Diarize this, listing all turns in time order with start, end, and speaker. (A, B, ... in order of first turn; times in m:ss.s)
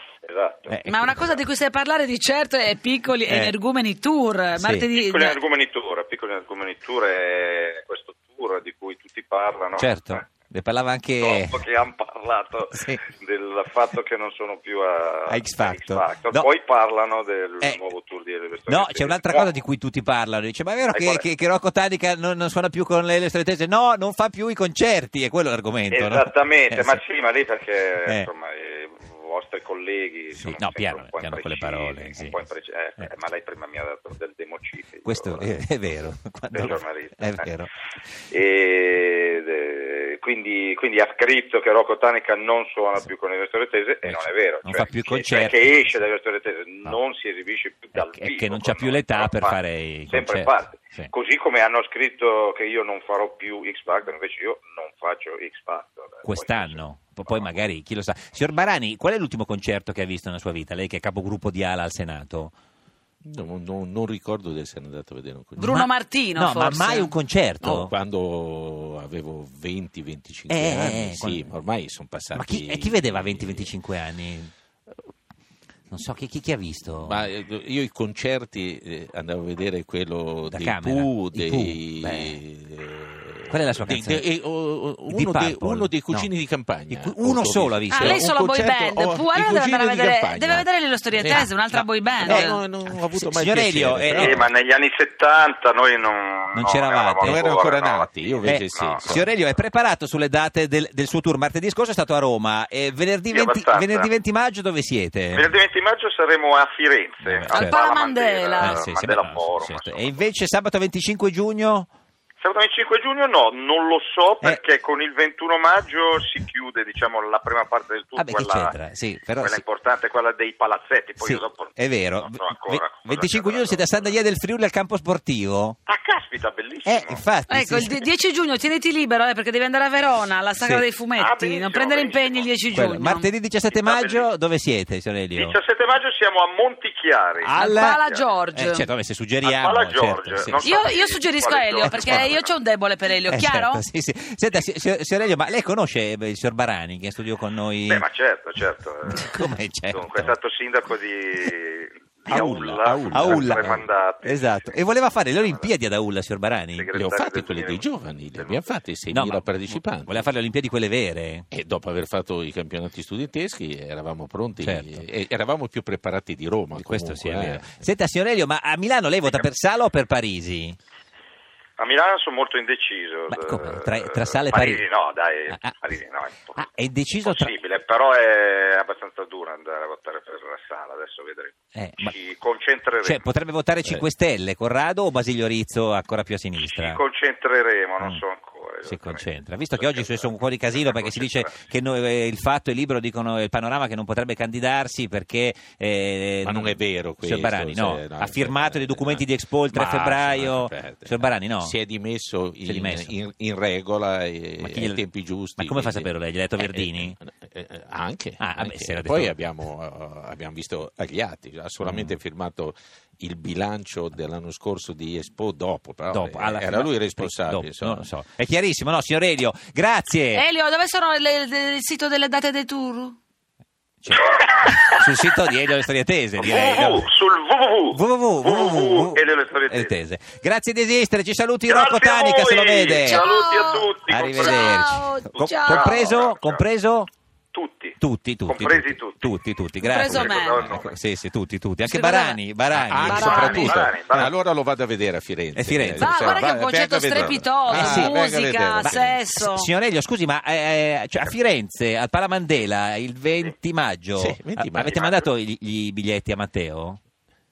0:00.2-0:01.4 A
0:00.7-0:01.3 B
0:00.8-0:05.4 C
0:03.3-0:03.5 B
0:04.5-0:04.8 B
0:04.9-0:10.2 A
0:09.8-0:11.6 B
0:11.2-0:19.5 A
0:12.7-0:13.0 B
0:15.3-0:16.4 B
0:18.7-0:27.0 B
0:20.9-0:21.2 A
0:25.9-0:35.6 A
0:30.4-0:32.4 B
0:35.0-0:37.7 B
0:36.5-0:37.5 A
0:38.3-0:57.6 A
0:44.0-0:45.6 B
0:47.9-0:51.1 B
0:56.2-1:02.5 B
1:03.2-1:05.8 D
1:05.6-1:07.1 C
1:05.7-1:07.9 B
1:07.6-1:13.7 D
1:10.5-1:11.4 B
1:12.3-1:14.5 B
1:15.9-1:17.3 B
1:17.0-1:34.5 D
1:20.5-1:22.4 B
1:23.5-1:24.2 B
1:25.1-1:26.3 B
1:26.9-1:28.2 B
1:27.9-1:32.6 C
1:31.3-1:34.4 B
1:34.1-1:39.0 A
1:36.5-1:37.4 B
1:37.2-1:39.3 D
1:38.4-1:45.5 B
1:43.3-1:44.1 A
1:45.3-1:50.2 A
1:47.2-1:47.8 B
1:47.5-1:48.8 C
1:48.6-1:51.9 B
1:52.4-1:58.7 A
1:58.2-1:59.6 B
1:59.4-2:04.2 A
2:01.2-2:05.8 B
2:05.9-2:07.2 A
2:06.8-2:08.0 B
2:07.5-2:13.3 C
2:11.2-2:12.5 A
2:12.7-2:15.6 B
2:13.7-2:14.3 A
2:15.3-2:18.3 A
2:17.4-2:18.0 B
2:17.5-2:18.9 C
2:18.5-2:20.9 B
2:19.4-2:22.5 A
2:20.6-2:23.8 C
2:21.8-2:22.4 B
2:23.3-2:28.0 B
2:27.9-2:34.8 A
2:29.1-2:30.3 B
2:32.3-2:36.9 B
2:32.3-2:33.8 D
2:35.4-2:35.7 A
2:36.7-2:38.8 A
2:36.9-2:40.2 D
2:39.1-2:41.5 B
2:41.5-2:47.8 D
2:44.6-2:45.0 B
2:46.8-2:50.8 B
2:51.8-2:56.7 A
2:53.3-2:54.8 B
2:55.5-2:55.8 B
2:56.6-2:57.5 B
2:57.2-3:03.2 A
3:01.7-3:02.1 B
3:03.0-3:07.0 B
3:06.6-3:11.6 A
3:08.8-3:21.7 B
3:16.4-3:38.1 D
3:22.6-3:23.1 B
3:24.6-3:25.0 B
3:25.6-3:27.2 B
3:28.4-3:29.4 B
3:31.8-3:32.2 B
3:36.1-3:40.4 B
3:40.3-3:43.2 C
3:44.0-3:47.1 B
3:44.4-3:45.0 A
3:46.4-3:50.0 A
3:47.9-3:53.2 B
3:51.7-3:56.6 A
3:53.0-3:56.2 C
3:54.1-3:57.1 B
3:57.5-3:59.3 A
3:58.0-4:03.9 B
3:59.8-4:00.7 C
4:00.0-4:01.0 A
4:01.8-4:02.4 C
4:02.7-4:09.3 D
4:03.0-4:03.9 C
4:03.2-4:04.4 A
4:05.5-4:06.5 B
4:05.9-4:09.7 C
4:07.7-4:08.2 B
4:08.8-4:17.0 B
4:14.1-4:15.1 D
4:14.8-4:15.2 A